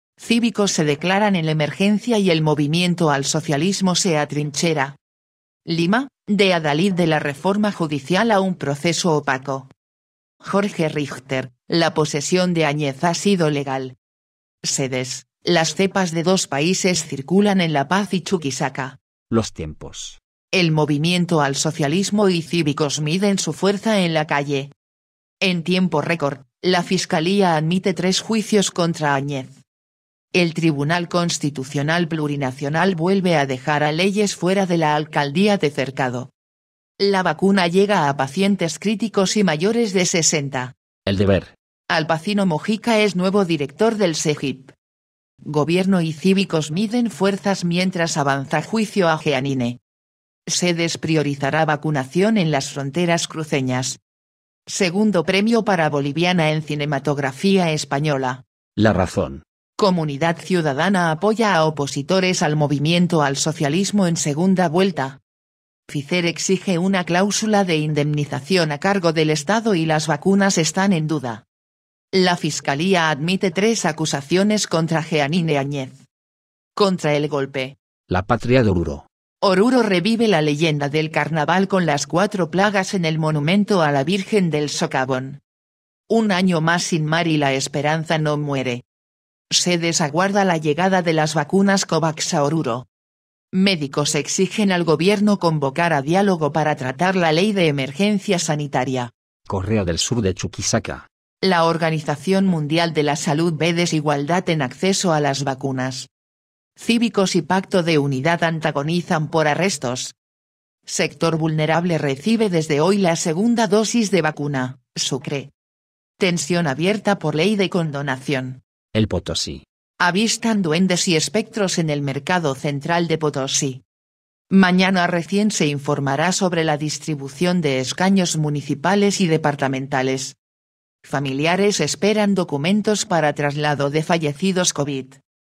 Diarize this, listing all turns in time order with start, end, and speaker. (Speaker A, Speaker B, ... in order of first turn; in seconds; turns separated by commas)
Speaker A: 0.2-5.0, Speaker A: 5.6-9.7, Speaker A: 10.4-13.9, Speaker A: 14.6-19.0, Speaker B: 19.3-20.2, Speaker A: 20.5-24.7, Speaker A: 25.4-29.6, Speaker A: 30.3-36.3, Speaker A: 37.0-40.7, Speaker B: 41.0-41.5, Speaker A: 41.9-44.7, Speaker A: 45.4-49.8, Speaker A: 50.5-54.0, Speaker A: 54.7-58.4, Speaker B: 58.8-59.4, Speaker A: 59.8-65.2, Speaker A: 65.9-71.4, Speaker A: 72.1-76.0, Speaker A: 76.8-77.8, Speaker B: 78.1-79.0, Speaker A: 79.4-85.4, Speaker A: 86.1-88.8, Speaker A: 89.5-92.9, Speaker A: 93.5-99.1, Speaker B: 99.5-101.1, Speaker A: 101.4-106.1, Speaker A: 106.8-110.2, Speaker A: 110.8-115.5, Speaker A: 116.2-118.6, Speaker B: 118.9-119.6, Speaker A: 120.0-123.8, Speaker A: 124.5-130.3, Speaker A: 131.0-135.2